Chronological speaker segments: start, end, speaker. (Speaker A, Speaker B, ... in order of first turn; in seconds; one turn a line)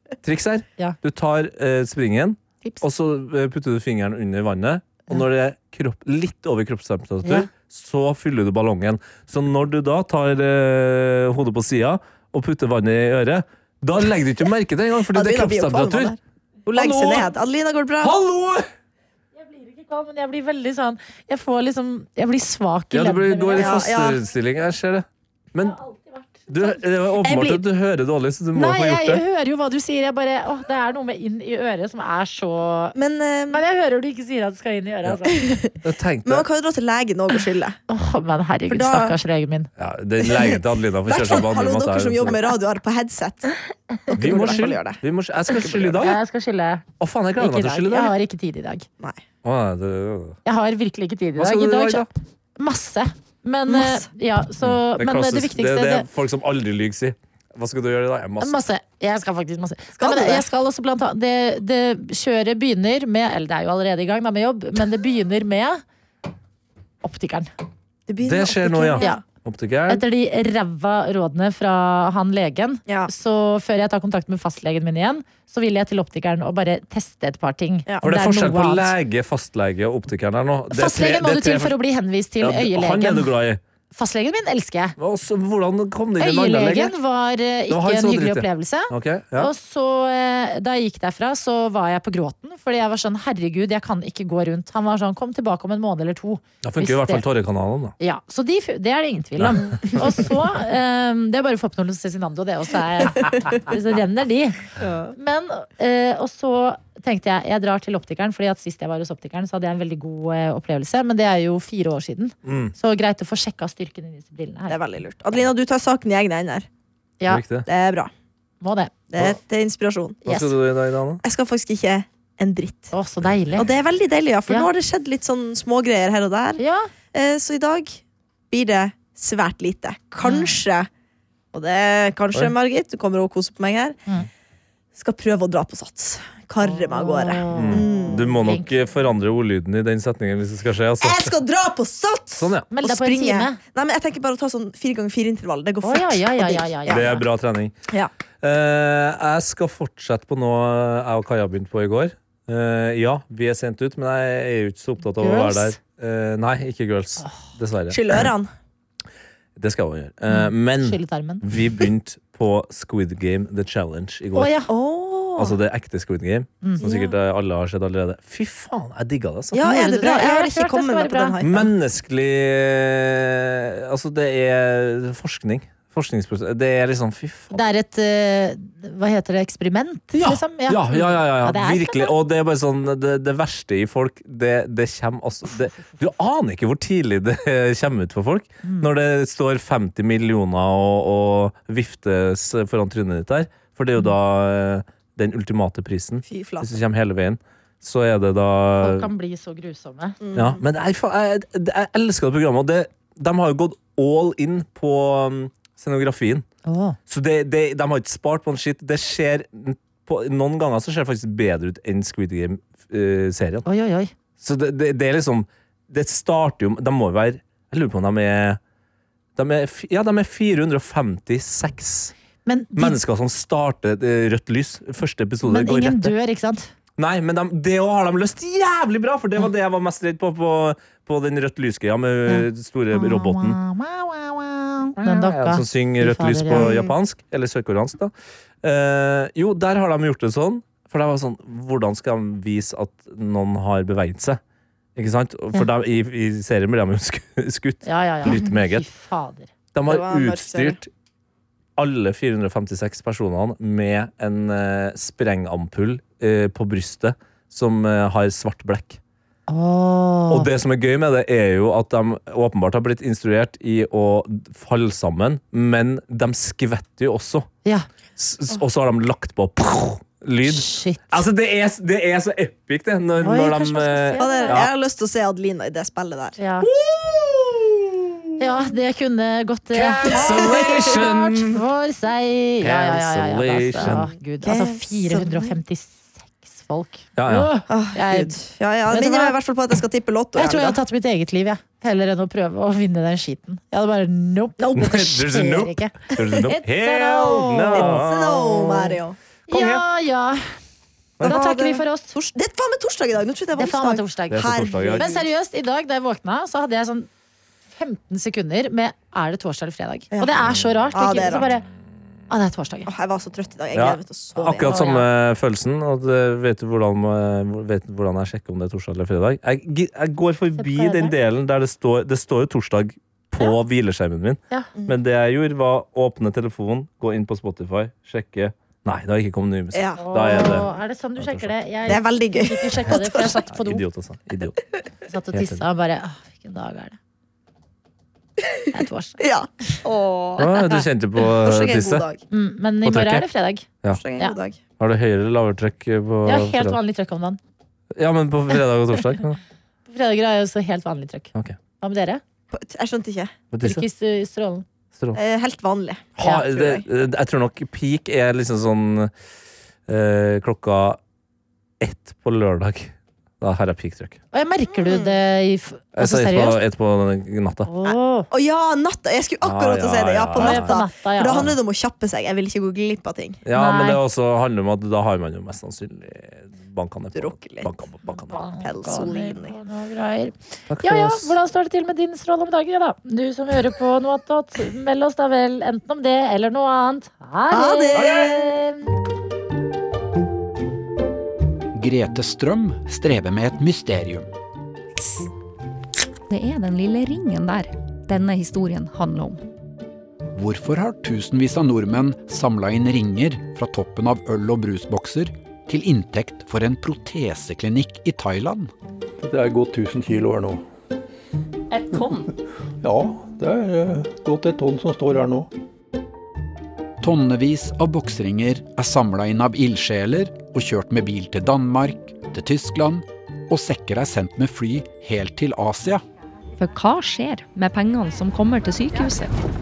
Speaker A: 0.2-16.1
Speaker B: 15.1-18.1
Speaker A: 16.7-17.3
Speaker A: 18.0-18.7
Speaker C: 19.4-23.8
Speaker A: 22.9-25.8
Speaker B: 23.6-24.2
Speaker C: 25.6-26.8
Speaker A: 26.5-29.2
Speaker B: 27.2-27.6
Speaker C: 28.5-33.0
Speaker B: 32.9-33.6
Speaker C: 33.5-35.4
Speaker B: 35.3-37.8
Speaker A: 35.8-36.5
Speaker C: 37.9-39.7
Speaker B: 38.7-39.2
Speaker A: 39.8-42.4
Speaker B: 40.3-45.0
Speaker C: 44.1-44.6
Speaker A: 44.1-46.2
Speaker C: 45.8-46.8
Speaker A: 47.0-48.1
Speaker C: 47.4-48.9
Speaker A: 49.4-50.4
Speaker C: 50.5-52.0
Speaker A: 51.4-52.1
Speaker C: 52.6-56.0
Speaker B: 53.7-54.0
Speaker A: 54.6-58.6
Speaker C: 58.4-65.8
Speaker B: 60.0-60.4
Speaker C: 67.0-67.5
Speaker B: 68.1-69.2
Speaker A: 68.2-70.0
Speaker C: 69.9-78.9
Speaker A: 78.0-81.8
Speaker C: 80.7-83.3
Speaker A: 82.4-83.6
Speaker C: 83.9-85.0
Speaker A: 85.0-86.9
Speaker C: 86.2-97.2
Speaker A: 87.7-89.5
Speaker A: 96.6-98.0
Speaker C: 98.0-104.6
Speaker A: 99.4-100.1
Speaker B: 104.8-105.1
Speaker C: 105.1-114.8
Speaker A: 112.4-112.7
Speaker B: 114.7-116.7
Speaker A: 117.3-117.7
Speaker B: 117.7-118.1
Speaker C: 118.6-118.9
Speaker B: 119.1-120.4
Speaker A: 120.2-121.2
Speaker B: 121.2-122.9
Speaker C: 122.9-123.7
Speaker B: 123.6-126.6
Speaker C: 126.6-126.9
Speaker B: 127.1-130.9
Speaker C: 130.2-130.6
Speaker B: 131.5-134.0
Speaker B: 134.9-138.3
Speaker C: 136.6-138.7
Speaker A: 137.5-141.3
Speaker B: 141.0-147.1
Speaker A: 142.4-142.7
Speaker C: 142.7-143.6
Speaker C: 145.8-147.2
Speaker A: 146.9-147.7
Speaker A: 148.4-158.0
Speaker C: 155.2-155.8
Speaker B: 157.9-158.5
Speaker A: 159.6-164.5
Speaker C: 160.3-161.4
Speaker C: 164.3-164.7
Speaker B: 164.7-165.6
Speaker A: 165.4-169.7
Speaker B: 166.8-167.1
Speaker B: 169.5-171.7
Speaker C: 169.6-171.3
Speaker A: 171.4-177.6
Speaker C: 177.5-182.1
Speaker A: 180.2-199.1
Speaker C: 188.6-188.9
Speaker B: 196.2-196.8
Speaker C: 198.8-200.2
Speaker B: 200.2-200.6
Speaker A: 200.3-206.4
Speaker C: 206.6-207.0
Speaker A: 207.1-213.7
Speaker C: 213.7-214.1
Speaker A: 214.4-218.6
Speaker A: 219.3-222.1
Speaker C: 222.4-223.0
Speaker A: 222.8-226.1
Speaker C: 225.4-226.7
Speaker A: 227.0-233.6
Speaker C: 232.3-236.7
Speaker A: 235.0-244.4
Speaker B: 236.5-236.9
Speaker A: 244.9-248.8
Speaker C: 247.8-249.5
Speaker A: 249.7-250.9
Speaker B: 249.9-250.8
Speaker A: 251.8-259.0
Speaker C: 259.5-260.5
Speaker A: 260.3-267.5
Speaker A: 268.2-274.7
Speaker C: 270.4-271.2
Speaker C: 273.2-274.7
Speaker B: 274.2-276.4
Speaker C: 276.4-276.7
Speaker A: 276.6-277.8
Speaker C: 278.4-288.4
Speaker A: 279.7-281.6
Speaker B: 280.5-280.8
Speaker A: 282.6-284.1
Speaker B: 283.8-285.5
Speaker A: 287.1-287.5
Speaker B: 287.7-290.8
Speaker C: 288.9-289.4
Speaker C: 290.4-298.1
Speaker B: 294.6-294.9
Speaker A: 294.8-299.8
Speaker B: 297.7-299.1
Speaker C: 299.5-300.5
Speaker A: 301.2-301.4
Speaker C: 301.2-302.1
Speaker B: 301.2-305.2
Speaker C: 303.6-307.1
Speaker A: 304.3-305.1
Speaker C: 307.7-311.7
Speaker B: 310.1-311.5
Speaker A: 310.5-310.8
Speaker C: 312.3-312.9
Speaker B: 312.9-314.8
Speaker A: 313.7-332.0
Speaker C: 314.5-315.1
Speaker C: 320.6-321.1
Speaker B: 329.7-330.7
Speaker C: 330.0-333.8
Speaker B: 331.9-333.3
Speaker A: 333.5-334.6
Speaker C: 335.1-336.9
Speaker A: 335.3-335.6
Speaker B: 338.5-340.5
Speaker C: 338.7-339.2
Speaker A: 340.4-342.1
Speaker B: 341.3-342.2
Speaker C: 342.3-343.7
Speaker A: 342.8-343.2
Speaker B: 344.0-344.6
Speaker A: 344.8-346.8
Speaker C: 346.2-347.4
Speaker A: 347.9-349.4
Speaker C: 349.9-351.3
Speaker C: 351.8-352.2
Speaker B: 352.5-353.3
Speaker A: 353.5-353.8
Speaker C: 353.6-354.6
Speaker B: 355.1-356.8
Speaker A: 356.2-359.1
Speaker A: 359.9-361.0
Speaker A: 361.8-364.2
Speaker C: 364.3-366.6
Speaker B: 364.7-365.1
Speaker A: 365.9-367.7
Speaker C: 367.6-368.3
Speaker B: 367.8-373.4
Speaker A: 369.4-370.8
Speaker C: 370.4-371.5
Speaker A: 373.4-378.4
Speaker C: 373.5-374.0
Speaker B: 377.1-377.7
Speaker C: 378.3-388.9
Speaker B: 378.6-379.5
Speaker A: 380.7-381.3
Speaker B: 387.5-388.6
Speaker A: 387.9-388.3
Speaker D: 391.7-394.3
Speaker E: 396.3-399.4
Speaker D: 400.3-408.7
Speaker F: 409.2-410.6
Speaker F: 411.9-415.5
Speaker D: 417.0-426.0
Speaker E: 426.6-429.4